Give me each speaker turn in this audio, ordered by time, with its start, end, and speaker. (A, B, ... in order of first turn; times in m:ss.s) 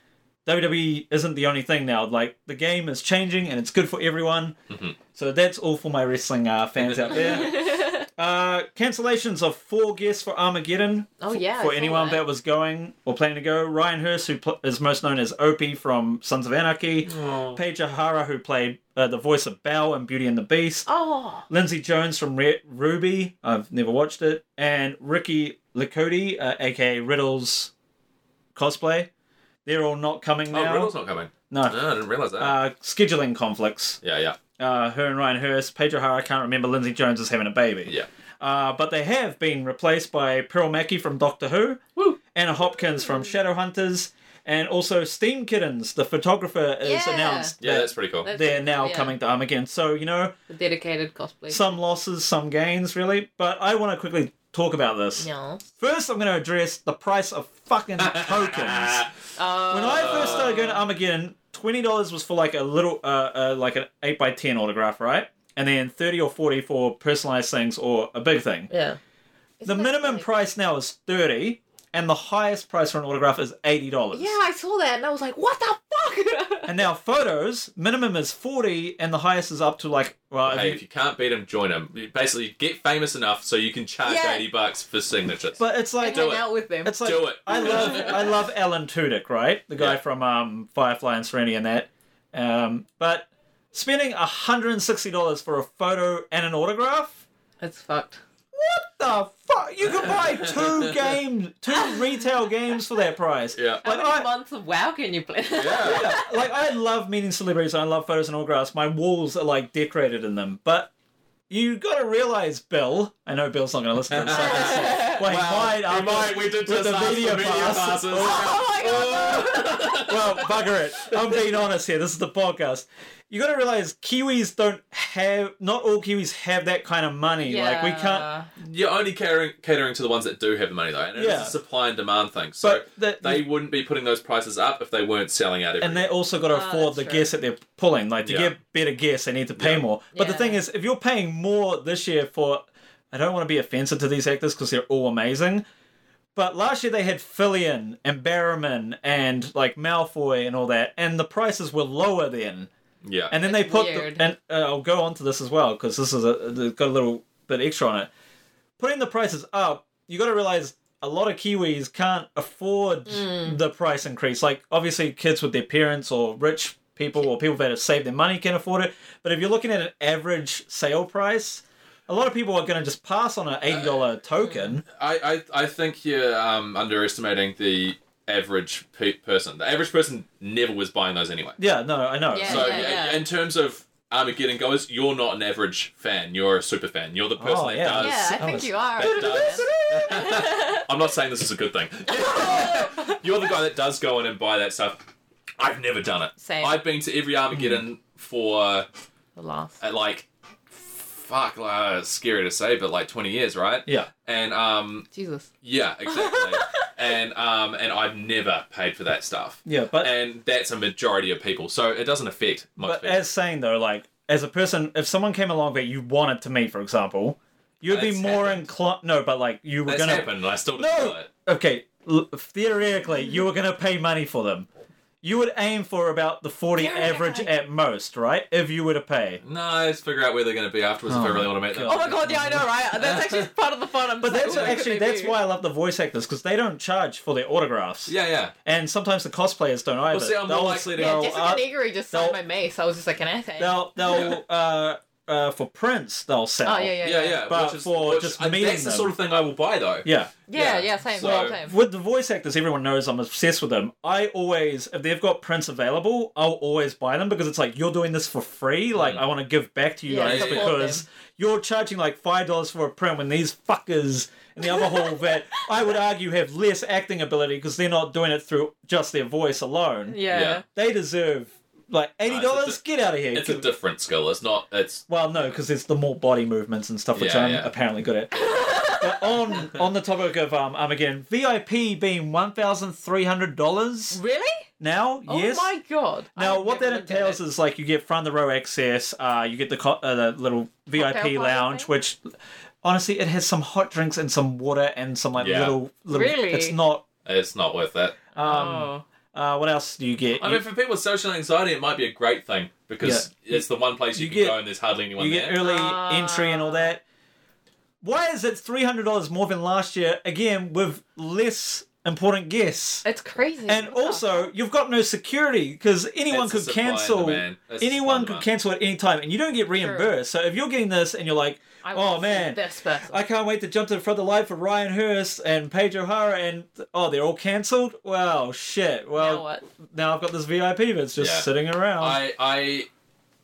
0:00.4-0:04.6 A
0:04.7-0:05.0 B
0:05.1-0:20.9 A
0:06.8-0:07.6 B
0:07.2-0:08.0 C
0:11.2-0:12.2 C
0:17.2-0:17.6 B
0:20.9-0:21.5 C
0:21.5-0:27.7 A
0:28.6-0:29.1 A
0:29.7-0:30.9 A
0:30.5-0:32.6 B
0:31.5-0:31.8 A
0:32.4-0:34.0 A
0:34.0-0:34.4 B
0:34.6-0:41.8 A
0:42.3-0:50.4 A
0:46.8-0:47.5 C
0:47.6-0:48.3 B
0:48.2-0:49.2 C
0:50.5-0:51.7 C
0:51.5-0:55.3 A
0:55.2-0:55.6 C
0:55.8-0:59.1 A
0:58.0-0:59.1 B
0:59.4-1:00.8 C
0:59.7-1:08.7 A
0:59.9-1:00.5 B
1:08.7-1:09.0 C
1:09.6-1:10.3 C
1:09.6-1:14.4 A
1:14.1-1:16.8 C
1:16.7-1:20.8 A
1:20.4-1:28.3 B
1:24.0-1:24.4 C
1:25.6-1:37.2 A
1:26.0-1:28.0 C
1:37.6-1:38.2 C
1:38.5-1:44.3 A
1:39.8-1:41.0 B
1:43.6-1:43.8 B
1:43.8-1:46.2 C
1:45.5-1:46.2 B
1:45.8-1:50.9 A
1:51.5-1:59.2 A
1:54.1-2:01.2 B
1:54.3-1:55.2 C
1:58.2-2:00.0 C
2:00.0-2:08.3 A
2:07.4-2:08.5 C
2:08.6-2:16.1 B
2:11.2-2:11.6 A
2:12.6-2:13.5 A
2:15.8-2:25.6 A
2:16.5-2:17.3 C
2:18.2-2:18.6 B
2:19.6-2:19.8 B
2:20.1-2:20.6 C
2:26.4-2:32.7 A
2:33.0-2:33.4 B
2:33.3-2:38.1 A
2:33.4-2:34.2 C
2:38.8-2:54.8 A
2:43.1-2:43.6 C
2:53.7-2:54.0 B
2:54.4-2:54.7 C
2:54.9-3:01.6 B
3:01.6-3:03.0 A
3:02.3-3:03.2 C
3:02.4-3:08.4 B
3:07.4-3:10.3 A
3:08.0-3:10.8 C
3:09.0-3:15.0 B
3:12.1-3:13.2 C
3:15.6-3:18.9 B
3:16.4-3:16.8 C
3:17.5-3:17.8 A
3:19.4-3:19.8 C
3:19.8-3:25.1 B
3:25.1-3:25.5 C
3:25.6-3:33.2 B
3:26.1-3:26.6 C
3:29.7-3:30.1 A
3:32.8-3:44.7 A
3:37.9-3:38.7 B
3:39.8-3:41.3 B
3:45.2-3:49.4 A
3:46.8-3:47.5 C
3:49.4-3:52.2 B
3:51.1-3:52.7 A
3:51.9-3:55.4 C
3:53.0-3:53.5 B
3:54.2-3:58.1 A
3:54.4-3:54.8 B
3:58.1-3:58.5 B
3:58.6-4:02.4 A
4:00.1-4:01.2 B
4:01.0-4:04.3 C
4:03.6-4:09.1 A
4:04.1-4:04.4 B
4:06.6-4:07.4 C
4:07.0-4:11.6 B
4:10.0-4:10.3 A
4:10.5-4:11.8 C
4:11.2-4:33.7 A
4:19.0-4:19.2 B
4:20.1-4:21.1 C
4:20.2-4:20.8 B
4:24.6-4:25.3 C
4:30.1-4:30.6 C
4:30.3-4:30.6 B
4:32.3-4:35.0 B
4:35.1-4:44.2 A
4:37.2-4:37.7 B
4:38.4-4:39.6 C
4:44.1-4:44.6 C
4:44.8-4:45.7 A
4:45.3-4:47.4 C
4:46.4-4:52.2 A
4:50.9-4:51.9 C
4:52.8-4:57.1 A
4:55.4-4:55.8 B
4:56.1-4:56.8 C
4:57.2-4:58.2 B
4:58.4-5:00.6 A
4:58.4-4:59.0 C
5:00.4-5:05.6 B
5:03.0-5:03.6 A
5:04.1-5:04.6 A
5:05.2-5:07.0 A
5:05.6-5:06.9 C
5:08.0-5:13.0 A
5:13.0-5:14.5 C
5:13.7-5:32.2 A
5:16.3-5:18.5 B
5:19.8-5:20.1 C
5:21.8-5:23.2 C
5:29.2-5:29.6 C
5:31.2-5:32.9 B